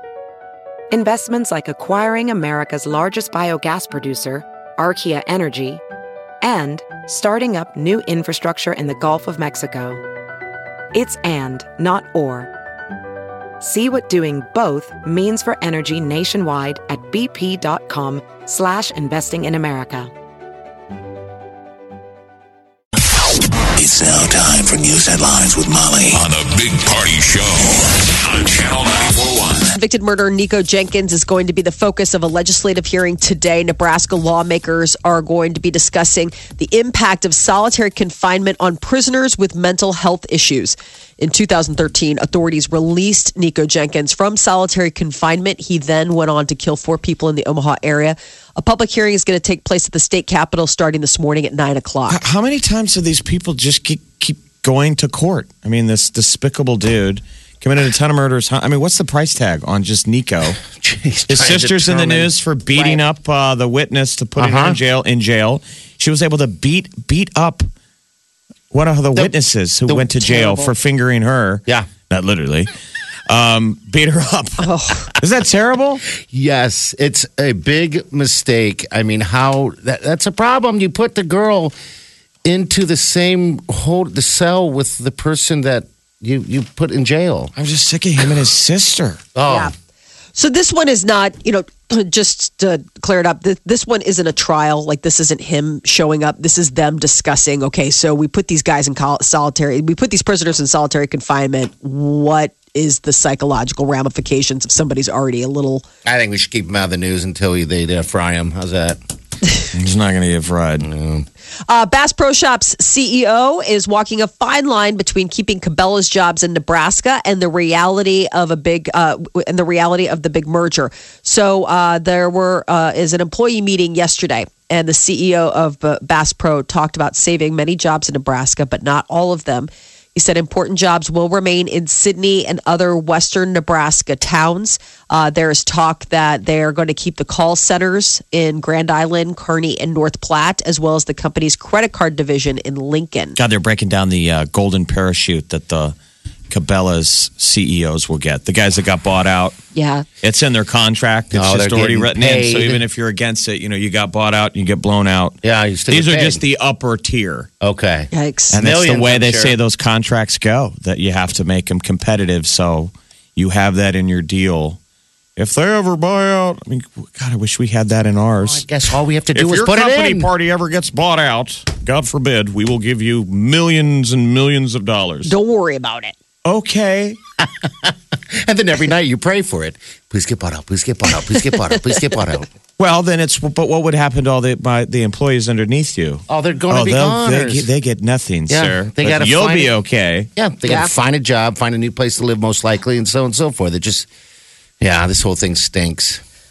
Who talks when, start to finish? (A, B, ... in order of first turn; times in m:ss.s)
0:00.9-0:05.8 A
0:06.4-0:10.0 A
0:10.9-0:12.5 A
0:13.6-0:20.1 A
0:23.8-0:29.7 B
0:29.7-0:52.2 C
0:52.1-1:00.6 D
1:00.6-1:02.9 E
1:01.3-1:07.6 D
1:04.4-1:04.8 E
1:08.7-1:12.7 D
1:09.9-1:10.7 E
1:13.3-1:16.0 D
1:14.6-1:15.1 C
1:16.1-1:21.7 E
1:22.4-1:27.5 E
1:27.6-1:29.2 D
1:29.3-1:29.7 E
1:29.4-1:29.7 C
1:30.4-1:45.8 C
1:46.0-1:49.0 E
1:49.7-1:50.9 D
1:50.8-1:51.3 E
1:51.7-2:23.4 C
2:23.4-2:26.0 D
2:26.5-2:29.6 D
2:29.7-2:30.1 C
2:30.2-2:35.4 D
2:31.3-2:32.8 E
2:35.4-2:36.4 E
2:35.9-2:37.5 D
2:37.6-2:39.6 E
2:38.1-2:38.5 C
2:38.5-2:44.8 D
2:45.4-2:48.6 D
2:48.4-2:50.3 E
2:49.3-2:55.3 D
2:55.2-2:56.1 C
2:56.4-2:57.2 D
2:57.4-3:02.5 E
3:02.8-3:10.3 D
3:06.3-3:07.7 E
3:08.5-3:09.7 E
3:10.4-3:14.1 E
3:10.7-3:10.9 C
3:14.8-3:16.2 E